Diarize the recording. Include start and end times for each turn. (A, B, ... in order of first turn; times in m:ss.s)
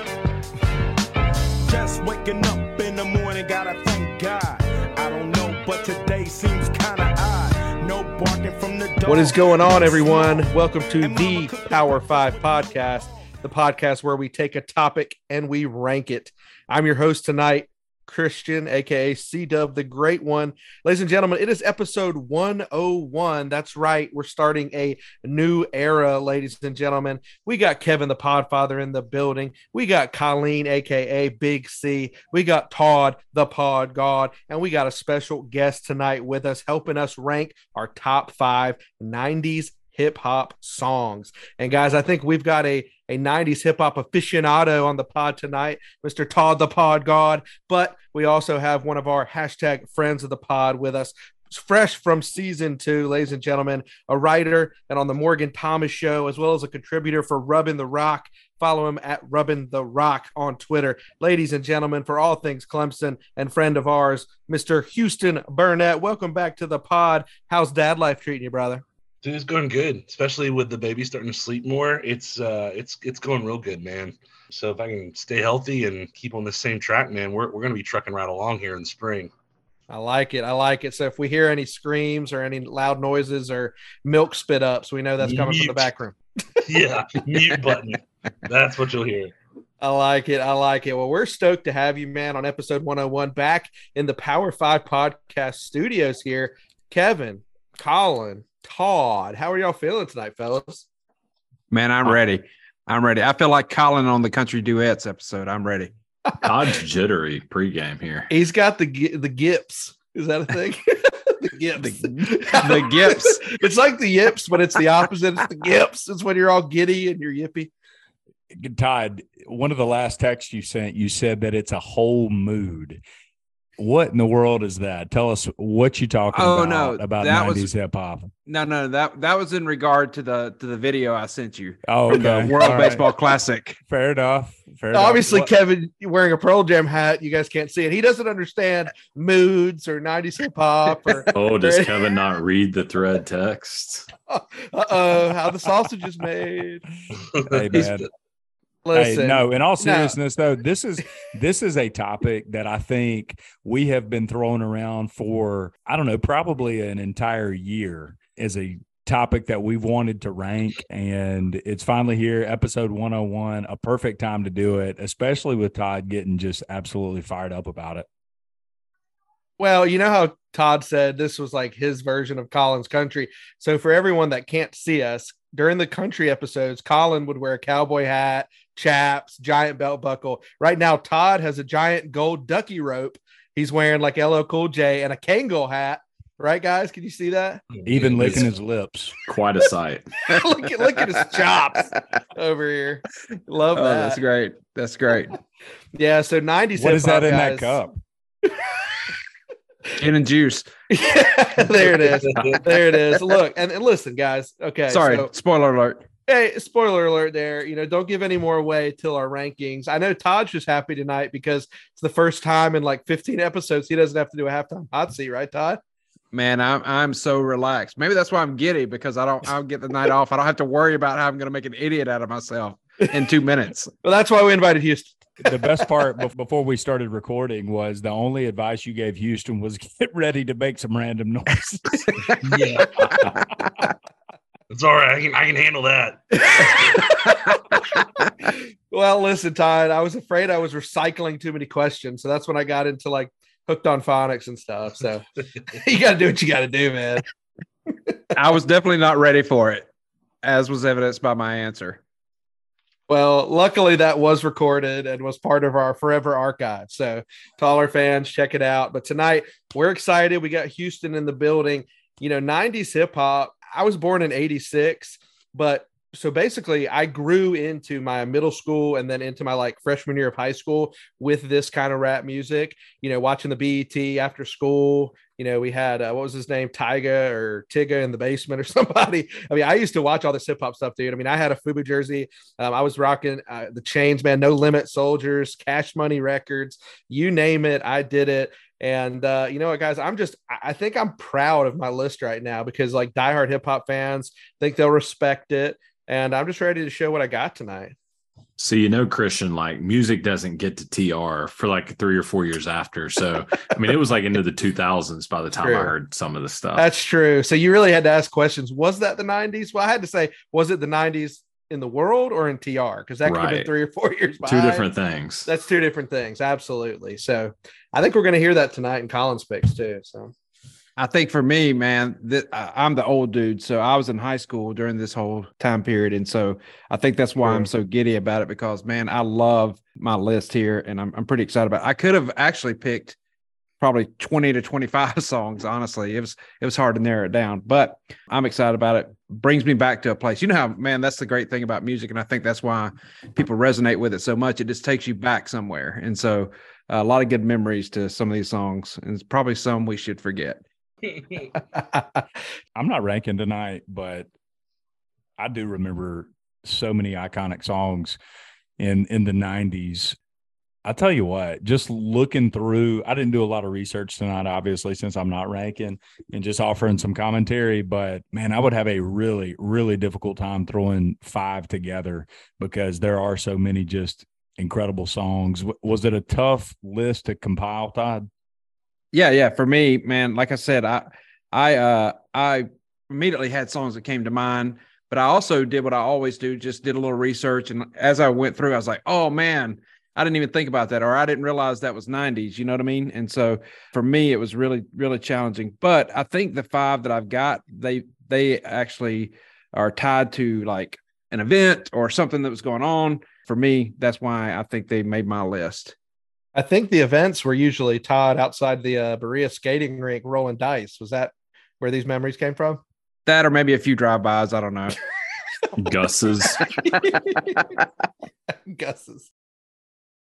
0:01.7-0:12.9 A
0:09.1-1:08.8 B
1:09.2-1:19.3 C
1:19.9-1:26.6 B
1:25.2-1:25.9 C
1:26.7-1:29.3 C
1:29.8-1:40.8 B
1:41.7-1:45.9 D
1:46.3-1:46.5 B
1:46.4-1:48.3 E
1:48.3-1:57.7 B
1:51.8-1:53.6 D
1:58.5-2:03.0 F
2:03.8-2:08.3 F
2:06.3-2:07.7 D
2:08.4-2:13.8 D
2:11.9-2:13.0 F
2:12.2-2:13.0 B
2:13.9-2:15.5 F
2:14.9-2:21.9 B
2:21.3-2:24.1 E
2:24.3-2:26.8 B
2:27.3-2:28.0 C
2:27.5-2:28.1 F
2:28.8-2:30.1 B
2:29.0-2:48.0 F
2:49.6-3:08.5 B
3:07.8-3:09.1 F
3:09.3-3:10.0 E
3:10.3-3:14.2 B
3:13.7-3:15.3 D
3:15.9-3:17.8 B
3:16.8-3:18.0 F
3:20.0-3:20.7 D
3:20.9-3:25.3 B
3:22.4-3:22.6 C
3:24.9-3:26.1 D
3:26.2-3:35.8 B
3:36.3-3:43.9 D
3:44.0-3:45.3 B
3:45.4-3:52.2 F
3:52.4-3:52.9 C
3:53.4-3:53.7 D
3:54.7-3:56.4 C
3:56.4-3:57.6 B
3:58.0-3:58.3 D
3:58.5-4:07.3 B
4:07.9-4:08.2 B
4:08.3-4:09.9 D
4:10.4-4:12.0 D
4:13.1-4:57.9 B
4:58.6-5:06.8 E
5:05.6-5:05.9 B
5:06.8-5:14.9 B
5:13.2-5:13.7 E
5:14.4-5:15.5 E
5:15.4-5:20.3 B
5:21.0-5:33.2 D
5:27.4-5:27.7 B
5:33.8-5:50.6 D
5:51.6-5:52.2 B
5:52.8-5:54.3 F
5:55.4-5:58.2 F
5:58.8-6:00.2 F
6:00.8-6:18.3 F
6:19.1-6:45.9 D
6:46.5-6:52.8 B
6:53.2-6:54.9 D
6:55.8-6:56.6 E
6:56.8-6:57.7 B
6:58.5-6:59.3 B